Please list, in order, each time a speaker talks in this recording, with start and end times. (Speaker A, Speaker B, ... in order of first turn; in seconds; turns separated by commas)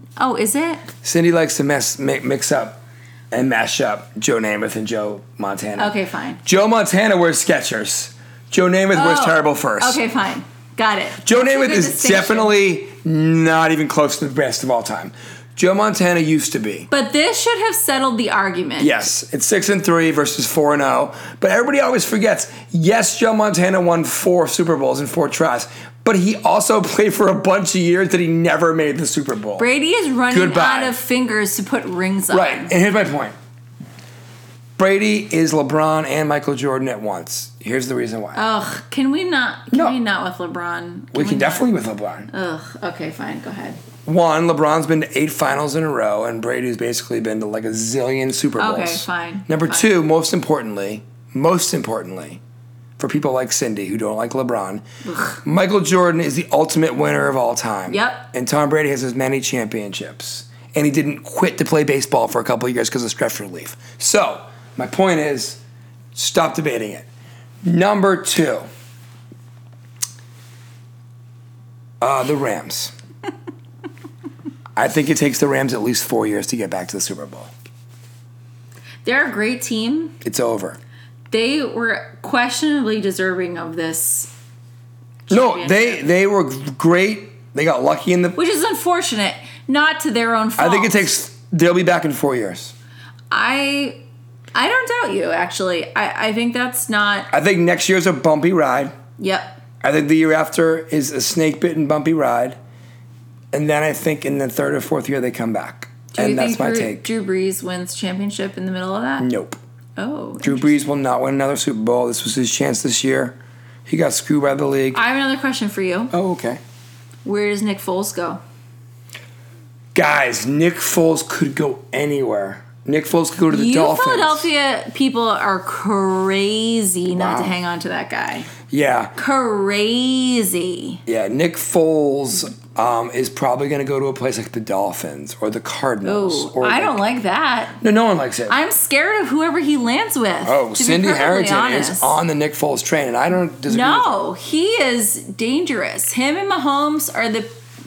Speaker A: 0.2-0.9, Speaker B: 1.0-10.0, Speaker A: 5.8-6.4, Speaker A: 8.9-12.5, Speaker B: 11.2-16.9, Speaker A: 16.9-19.1, Speaker B: 18.8-29.7, Speaker A: 29.6-32.7, Speaker B: 30.3-31.0, Speaker B: 32.3-33.3, Speaker B: 34.8-38.4, Speaker A: 38.3-41.7, Speaker B: 39.7-40.0, Speaker B: 41.1-42.3, Speaker A: 42.3-43.8, Speaker B: 44.0-52.4, Speaker A: 48.6-49.9, Speaker B: 53.0-54.8, Speaker A: 55.0-55.4, Speaker B: 55.4-65.6, Speaker A: 57.9-58.2, Speaker B: 66.1-67.1, Speaker B: 67.6-68.6, Speaker B: 72.0-72.9, Speaker B: 74.8-77.5, Speaker A: 79.0-80.1, Speaker B: 80.2-80.8, Speaker A: 81.3-84.3, Speaker A: 85.3-86.1, Speaker B: 85.3-88.4, Speaker A: 88.3-91.1, Speaker B: 90.6-92.7, Speaker A: 93.3-94.0, Speaker A: 94.5-97.3, Speaker B: 97.3-98.9, Speaker A: 99.2-99.6, Speaker B: 99.8-102.6, Speaker B: 103.5-107.1, Speaker A: 106.1-109.3, Speaker B: 109.2-109.6, Speaker A: 110.0-110.8, Speaker B: 110.4-115.0, Speaker A: 114.9-116.1, Speaker B: 116.1-116.6, Speaker A: 117.2-118.4, Speaker B: 119.9-124.5, Speaker A: 123.5-128.5, Speaker B: 127.1-127.6, Speaker B: 128.7-129.1, Speaker A: 129.2-131.0, Speaker B: 131.1-137.0, Speaker A: 136.0-137.8, Speaker B: 137.8-138.6, Speaker A: 138.5-142.2, Speaker B: 140.4-144.2, Speaker A: 143.7-147.5